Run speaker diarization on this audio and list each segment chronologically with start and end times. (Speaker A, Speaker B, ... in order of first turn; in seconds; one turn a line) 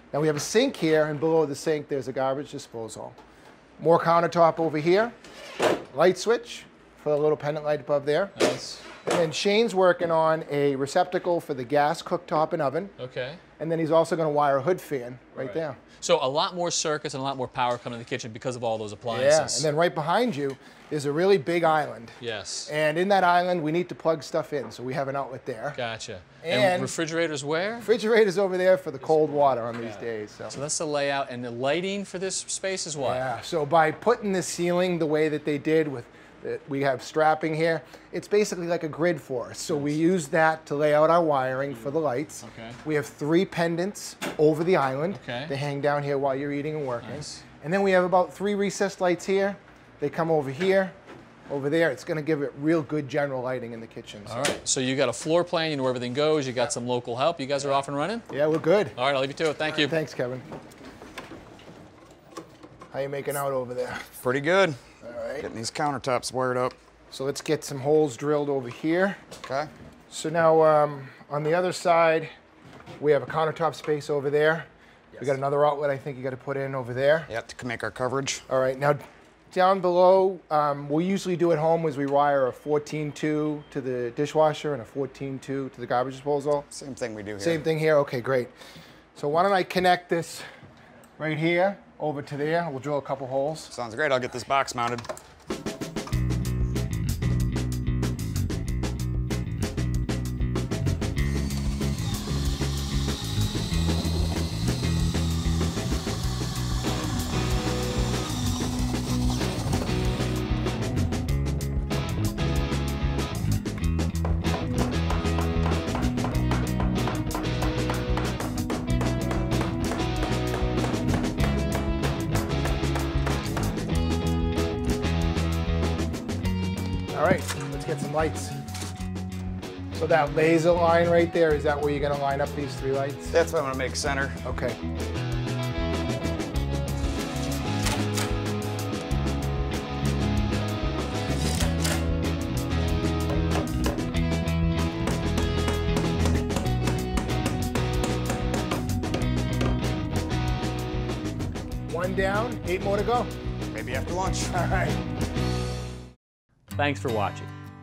Speaker A: 0.1-3.2
Speaker A: 3.8-5.1
Speaker A: 5.9-8.3
Speaker B: 8.3-8.8
Speaker A: 9.0-12.9
Speaker B: 13.0-13.4
Speaker A: 13.6-15.8
Speaker B: 15.4-19.7
Speaker A: 19.1-25.8
Speaker B: 22.2-22.7
Speaker B: 25.7-27.9
Speaker A: 26.4-26.9
Speaker A: 27.8-30.6
Speaker B: 29.0-33.3
Speaker A: 33.0-51.0
Speaker B: 39.7-40.0
Speaker B: 42.4-42.8
Speaker B: 45.1-45.5
Speaker B: 47.0-47.4
Speaker A: 51.5-54.5
Speaker B: 54.3-58.2
Speaker A: 58.3-59.0
Speaker B: 59.0-60.0
Speaker A: 59.7-60.5
Speaker A: 62.9-64.1
Speaker C: 64.2-64.8
Speaker A: 65.0-65.5
Speaker C: 65.4-66.8
Speaker A: 67.1-69.2
Speaker C: 69.5-69.7
Speaker A: 70.1-72.3
Speaker A: 73.0-77.3
Speaker C: 77.3-78.4
Speaker A: 78.5-86.7
Speaker C: 86.7-87.6
Speaker A: 87.4-88.5
Speaker A: 89.2-90.4
Speaker A: 91.2-93.7
Speaker C: 93.7-95.1
Speaker A: 127.1-128.6
Speaker A: 129.9-133.4
Speaker C: 133.3-134.4
Speaker A: 134.4-134.8
Speaker A: 151.9-153.3
Speaker C: 153.7-154.5
Speaker A: 154.5-155.0
Speaker B: 156.8-157.5